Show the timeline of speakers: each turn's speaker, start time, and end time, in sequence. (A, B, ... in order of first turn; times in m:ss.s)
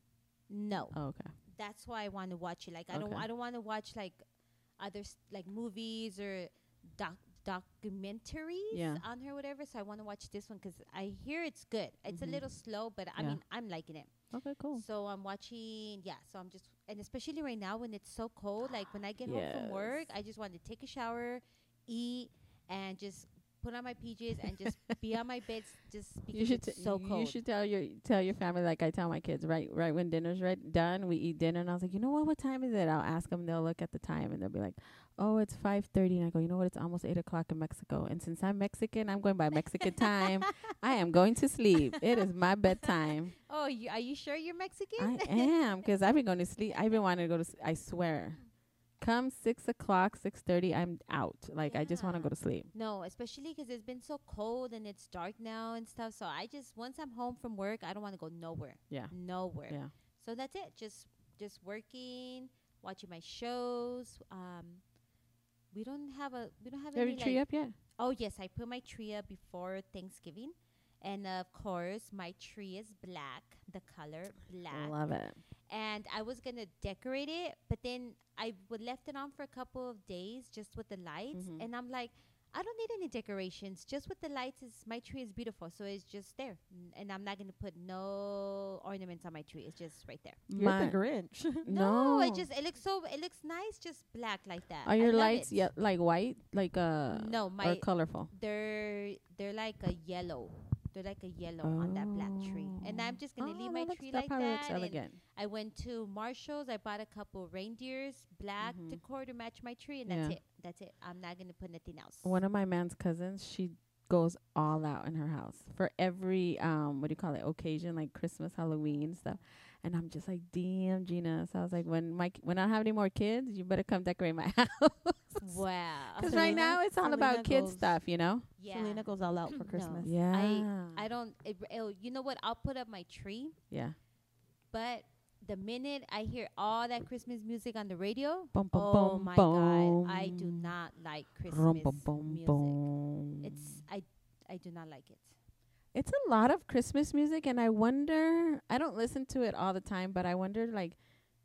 0:00.5-0:01.0 A
0:00.9-0:01.3 B
0:01.5-0:04.2 A
0:02.9-0:03.3 B
0:04.8-0:14.1 A
0:08.7-0:09.0 B
0:12.1-0:12.4 B
0:14.3-0:14.8 B
0:14.7-0:27.4 A
0:19.3-0:20.0 B
0:26.3-0:43.3 B
0:39.9-0:40.5 A
0:43.4-0:45.5 A
0:45.0-0:48.4 B
0:49.0-0:52.7 B
0:51.7-1:04.8 A
1:05.7-1:07.4 A
1:07.0-1:07.8 B
1:08.0-1:15.0 A
1:14.7-1:15.4 B
1:15.7-1:30.4 A
1:21.3-1:21.6 B
1:30.5-1:31.0 B
1:30.6-1:31.7 C
1:31.6-1:32.4 B
1:31.7-1:35.7 A
1:34.8-1:38.3 B
1:37.1-1:52.4 A
1:41.6-1:45.2 B
1:48.6-1:49.0 B
1:50.1-1:50.4 B
1:52.2-2:05.6 B
2:05.4-2:06.7 A
2:06.2-2:08.5 B
2:06.2-2:08.0 C
2:08.6-2:09.1 A
2:08.7-2:10.2 C
2:09.6-2:13.6 A
2:10.0-2:11.0 B
2:13.7-2:14.0 B
2:14.7-2:22.8 A
2:18.5-2:20.7 B
2:21.5-2:23.8 B
2:23.4-2:25.4 A
2:25.9-2:31.0 B